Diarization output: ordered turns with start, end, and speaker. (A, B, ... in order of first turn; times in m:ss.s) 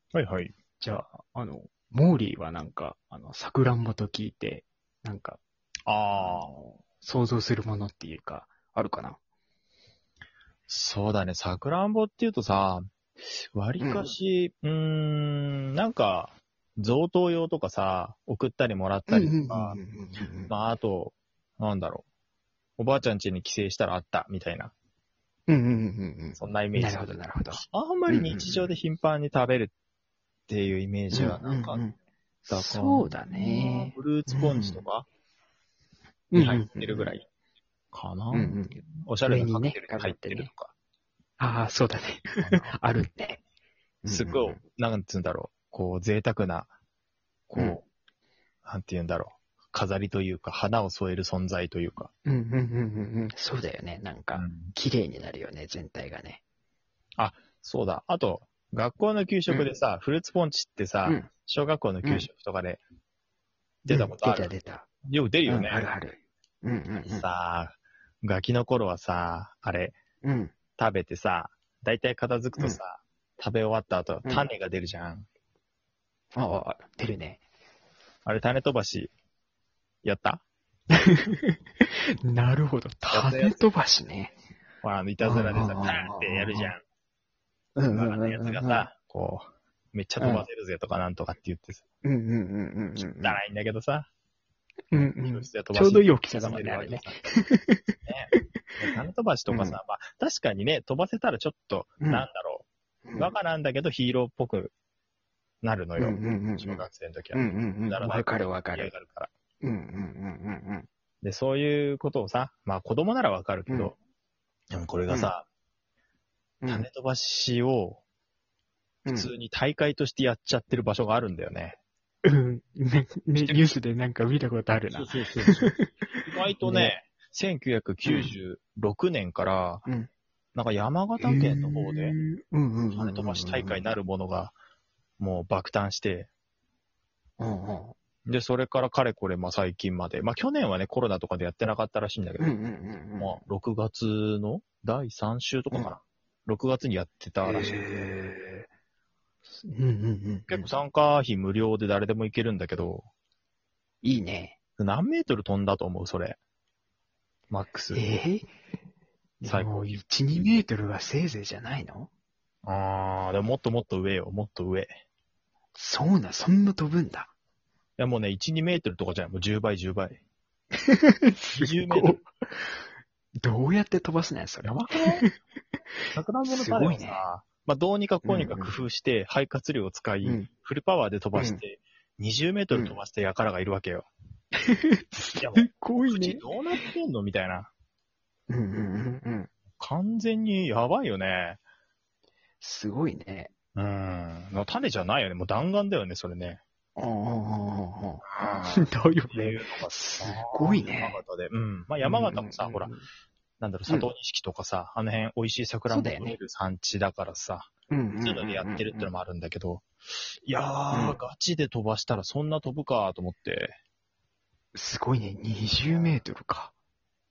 0:00.1-0:00.5 A
0:00.8-0:05.4 B
0:05.9-0:06.5 A
0:06.2-0:09.2 B
0:10.7-0:19.8 A
0:13.8-0:14.1 B
0:19.1-0:20.5 B
0:20.5-0:22.0 A
0:22.8-0:24.7 A
0:25.5-0:28.7 B
0:26.4-0:29.7 A
0:30.5-0:31.8 A
0:31.1-0:31.9 B
0:32.5-0:34.8 B
0:32.5-0:35.1 A
0:36.3-0:37.1 B
0:36.4-0:37.3 A
0:37.9-0:40.7 A
0:38.3-0:40.5 B
0:41.4-0:43.4 B
0:42.4-0:42.8 A
0:44.0-0:44.6 B
0:44.1-0:46.7 A
0:47.5-0:47.8 A
0:48.6-0:52.1 A
0:52.3-0:56.4 B
0:54.3-0:54.7 A
0:57.2-1:02.8 A
1:03.8-1:04.5 A
1:03.9-1:04.9 B
1:05.1-1:05.9 A
1:05.5-1:07.3 B
1:07.0-1:10.0 A
1:10.2-1:10.5 B
1:10.8-1:15.3 A
1:16.4-1:17.4 B
1:18.3-1:19.1 A
1:20.0-1:20.4 A
1:20.9-1:24.3 B
1:23.1-1:23.6 A
1:24.8-1:26.8 A
1:25.2-1:26.7 B
1:27.8-1:28.9 B
1:27.9-1:31.8 A
1:30.2-1:30.5 B
1:32.0-1:33.4 B
1:33.2-1:34.1 A
1:34.9-1:38.4 B
1:34.9-1:37.2 A
1:38.1-1:44.7 A
1:39.5-1:39.8 B
1:42.0-1:42.2 B
1:43.0-1:43.3 B
1:45.6-1:49.3 A
1:46.0-1:48.9 B
1:49.6-1:50.9 B
1:51.2-1:54.0 A
1:53.7-1:53.9 B
1:54.7-1:55.5 A
1:55.1-1:55.3 B
1:56.6-1:56.9 B
1:56.7-1:58.0 A
1:59.0-1:59.3 B
1:59.1-2:01.8 A
2:02.2-2:06.9 B
2:03.4-2:03.6 A
2:04.9-2:09.8 A
2:08.0-2:08.3 B
2:10.6-2:12.2 A
2:11.2-2:13.8 B
2:12.9-2:14.6 A
2:15.2-2:16.3 A
2:17.4-2:18.0 B
2:18.3-2:22.5 A
2:22.4-2:23.4 B
2:23.2-2:27.8 A
2:27.4-2:28.7 B
2:29.6-2:30.7 B
2:30.5-2:33.1 A
2:34.0-2:34.6 B
2:34.8-2:36.4 A
2:37.5-2:38.0 A
2:37.9-2:38.5 B
2:39.4-2:42.1 B
2:39.4-2:40.0 A
2:42.7-2:45.0 A
2:45.8-2:47.3 B
2:48.0-2:50.2 A
2:50.8-2:52.8 B
2:51.6-2:52.2 A
2:53.4-2:55.3 B
2:54.6-2:55.2 A
2:56.1-3:04.1 A
2:56.5-2:57.2 B
2:58.2-2:58.7 B
3:00.2-3:00.5 B
3:01.4-3:01.6 B
3:04.6-3:06.5 B
3:05.4-3:07.7 A
3:08.5-3:09.5 B
3:09.8-3:11.6 A
3:12.6-3:13.5 B
3:13.8-3:16.6 A
3:17.0-3:21.2 B
3:18.2-3:22.9 A
3:22.0-3:23.1 B
3:23.6-3:29.9 A
3:25.9-3:26.4 B
3:27.9-3:29.1 B
3:30.5-3:33.8 A
3:30.9-3:31.2 B
3:34.8-3:36.7 B
3:35.9-3:36.2 A